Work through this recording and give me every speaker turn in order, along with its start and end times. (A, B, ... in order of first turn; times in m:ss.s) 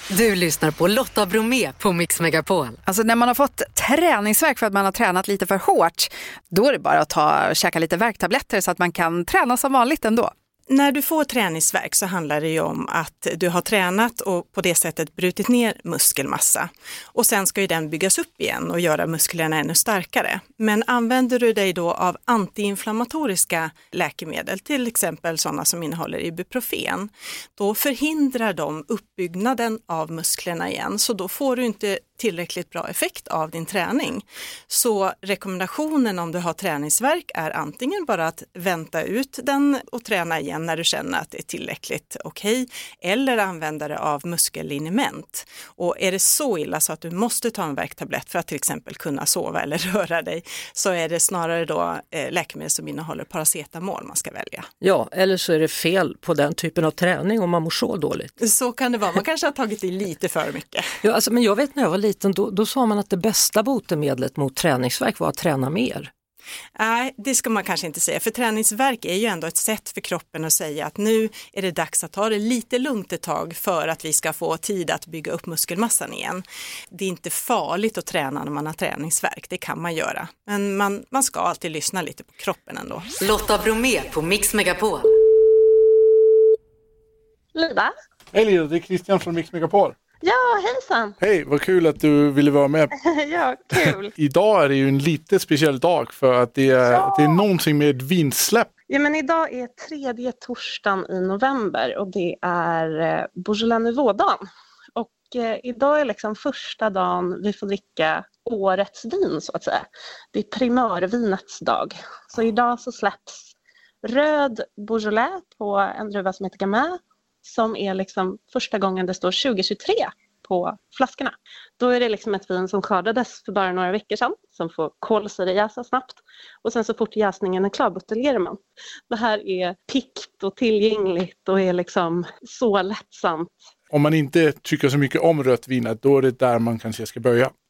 0:00.1-0:02.8 A
0:02.9-0:10.3 B
0:10.7-0:54.7 C
0:54.8-0:58.3 D
0:58.4-1:00.8 C
1:01.0-1:06.1 D
1:06.8-1:23.1 C
1:23.2-1:25.1 A
1:27.6-1:27.9 E
1:28.3-1:30.0 F
1:30.2-1:31.1 E
1:31.2-1:32.9 F
1:33.0-1:34.1 E
1:33.8-1:38.7 F
1:36.9-1:37.5 E
1:38.9-1:53.5 E
1:54.0-2:13.5 E
2:13.9-2:17.5 F